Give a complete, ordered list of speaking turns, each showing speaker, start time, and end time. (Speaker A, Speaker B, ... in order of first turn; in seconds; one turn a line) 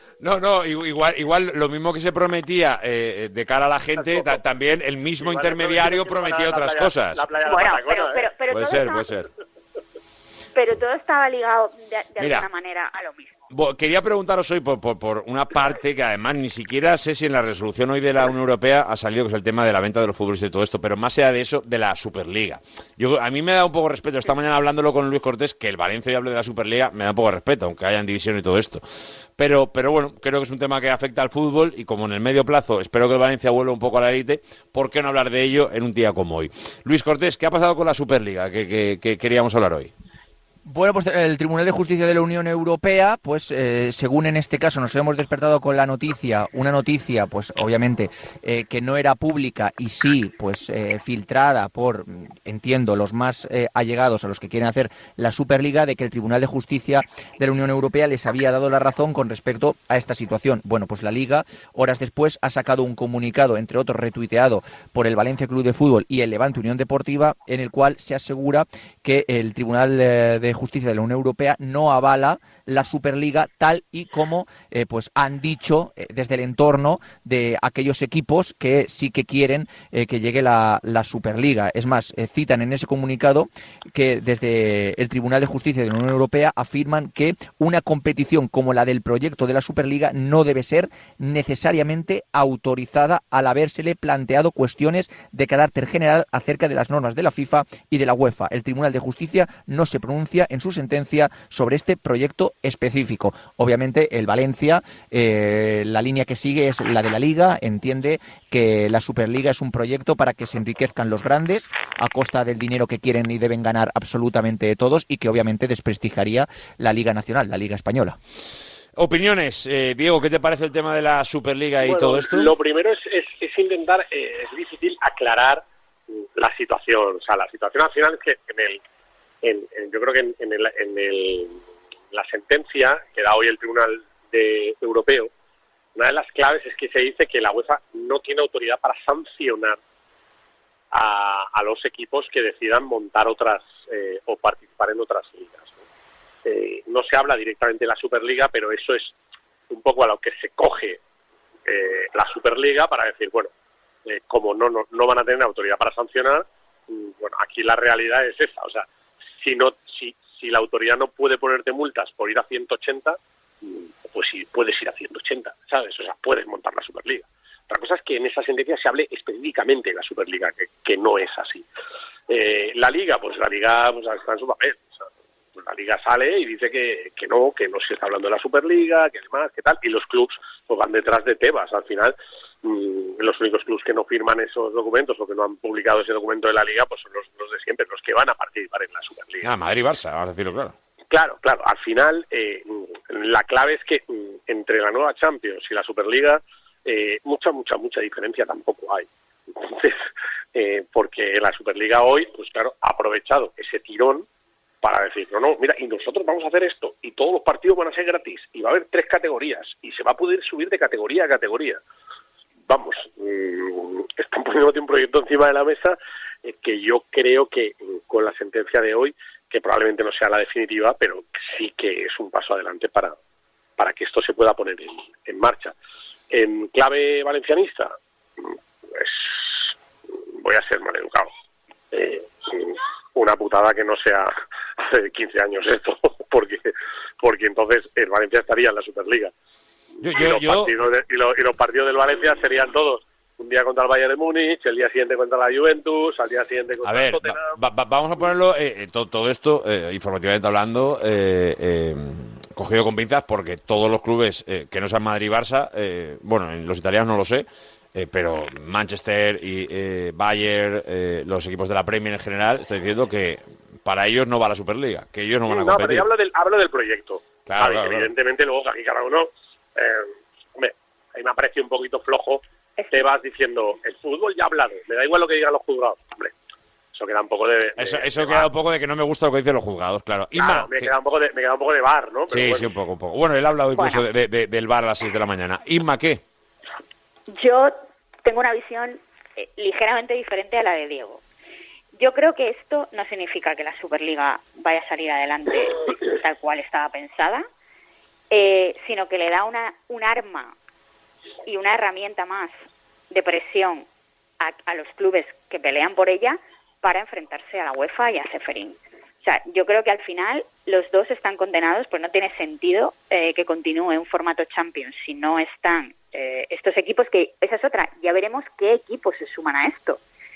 Speaker A: 0.2-7.2
Speaker B: 4.0-4.3
Speaker B: 5.2-8.3
Speaker C: 7.4-9.1
Speaker A: 8.5-9.3
Speaker C: 10.6-13.4
Speaker A: 12.2-12.5
Speaker A: 13.5-39.9
Speaker D: 40.7-118.2
Speaker A: 119.0-122.5
Speaker B: 121.8-125.6
Speaker B: 126.4-128.8
Speaker B: 129.4-131.6
Speaker B: 132.1-135.3
Speaker B: 136.0-139.8
Speaker B: 140.9-145.8
Speaker B: 146.4-149.1
Speaker B: 149.7-151.0
Speaker B: 151.7-153.5
Speaker B: 154.1-158.8
Speaker B: 159.4-171.7
Speaker B: 172.3-189.5
Speaker A: 189.4-190.8
Speaker B: 191.1-200.0
Speaker B: 200.6-204.3
Speaker B: 204.8-211.8
Speaker B: 212.7-223.2
Speaker B: 223.8-225.7
Speaker B: 226.3-227.9
Speaker B: 228.9-229.7
Speaker B: 230.4-231.3
Speaker B: 231.9-239.3
Speaker A: 240.0-240.7
Speaker B: 240.1-247.6
Speaker A: 246.8-266.1
Speaker B: 265.5-276.3
Speaker A: 267.5-268.1
Speaker C: 272.8-273.1
Speaker B: 276.9-278.5
Speaker A: 277.8-280.9
Speaker B: 280.4-282.7
Speaker A: 282.3-286.2
Speaker C: 283.8-284.0
Speaker C: 287.3-291.2
Speaker C: 292.0-297.5
Speaker C: 298.3-300.5
Speaker C: 301.5-302.6
Speaker C: 303.1-303.9
Speaker C: 304.4-320.0